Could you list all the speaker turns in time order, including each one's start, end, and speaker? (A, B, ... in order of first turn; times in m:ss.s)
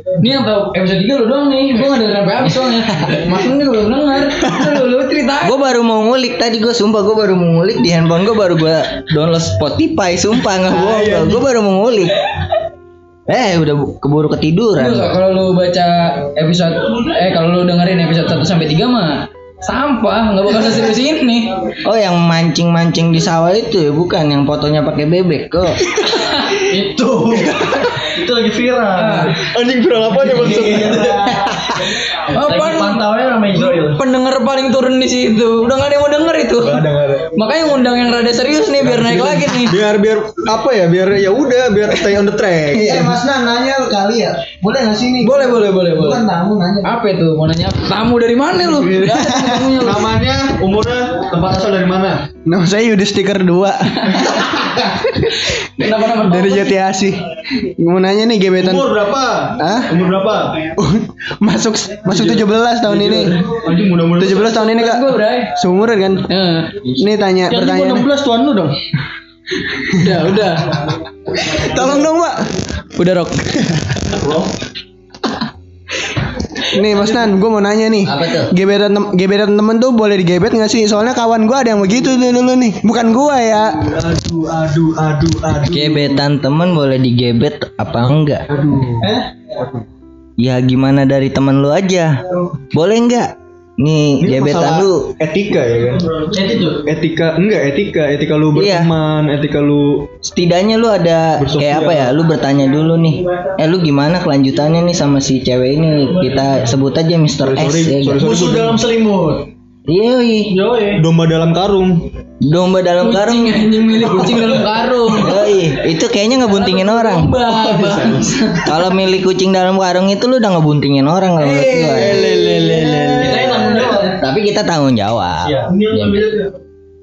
0:00.2-0:05.6 A
0:03.2-0:03.9 B
0:05.4-0:12.2 C
0:10.8-0:11.3 D
0:13.3-0:15.1 C
0:14.8-0:21.5 A
0:21.8-0:25.9 C
0:26.3-0:26.7 A
0:26.9-0:27.5 B
0:27.4-0:27.9 D
0:28.0-0:29.4 E
0:29.0-0:29.4 A
0:29.4-0:31.4 D
0:30.2-0:31.6 E
0:32.3-0:33.0 A
0:32.4-0:34.0 E
0:33.8-0:36.8 A
0:36.6-0:37.3 D
0:37.3-0:39.8 A
0:38.8-0:43.1 D
0:42.8-0:46.9 B
0:45.2-0:46.2 A
0:46.8-0:50.2 A
0:48.8-0:49.2 D
0:49.0-0:49.7 B
0:49.7-0:52.4 D
0:52.4-0:55.3 B
0:53.9-0:54.4 A
0:55.4-0:56.7 A
0:56.2-0:59.0 B
0:58.6-1:00.8 D
0:59.6-0:59.9 B
1:00.8-1:03.5 B
1:02.1-1:04.6 D
1:04.2-1:06.3 B
1:04.5-1:05.6 A
1:06.3-1:06.7 A
1:07.0-1:08.1 B
1:07.5-1:08.8 E
1:09.9-1:10.9 A
1:11.3-1:12.5 B
1:13.0-1:13.7 A
1:16.7-1:24.1 B
1:18.1-1:18.5 C
1:24.0-1:26.2 D
1:25.6-1:28.5 C
1:28.5-1:29.1 D
1:29.0-1:29.3 E
1:29.6-1:29.8 D
1:30.4-1:32.2 C
1:32.7-1:35.1 C
1:34.2-1:36.2 D
1:36.3-1:36.8 E
1:36.9-1:40.1 D
1:38.6-1:38.9 C
1:40.2-1:48.2 C
1:41.4-1:42.2 D
1:47.4-1:48.8 D
1:48.2-1:49.5 E
1:49.9-1:50.6 C
1:50.5-1:51.0 E
1:51.0-1:52.1 D
1:52.4-1:53.8 C
1:53.0-1:55.4 A
1:55.2-1:57.4 C
1:56.7-1:58.7 A
1:57.6-1:58.3 D
1:58.6-2:02.2 C
2:01.5-2:02.3 E
2:01.9-2:03.8 D
2:02.2-2:04.1 B
2:03.1-2:04.2 E
2:04.2-2:06.3 C
2:05.4-2:06.4 E